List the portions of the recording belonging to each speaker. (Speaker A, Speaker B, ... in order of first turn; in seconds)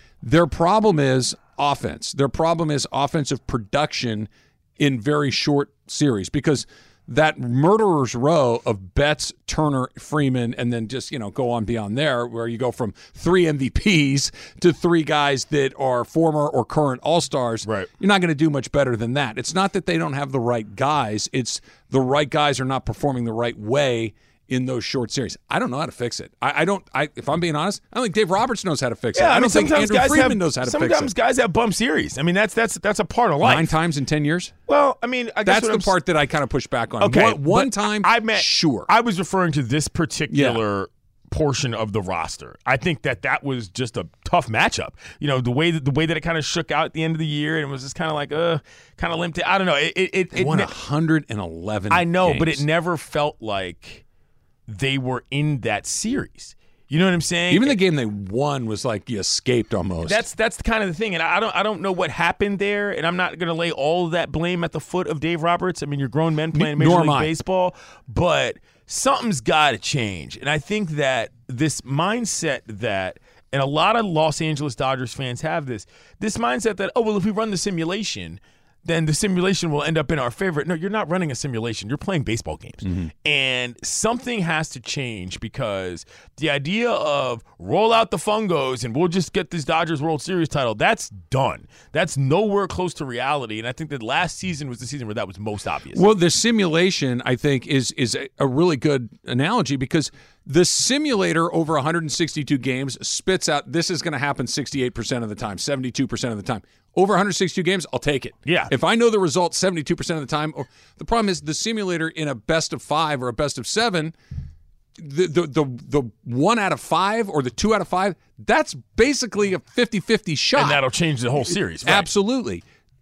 Speaker A: 0.2-31.1, 33.4-34.5, 35.4-38.9, 40.3-40.6, 50.3-52.6, 57.5-60.2, 66.5-67.3, 95.9-114.1, 115.0-120.8, 121.4-122.6
Speaker B: 17.6-17.9, 29.1-33.8, 34.7-35.9, 37.0-50.7, 51.9-54.0, 54.7-57.8, 60.0-96.0, 108.5-108.7, 120.5-122.1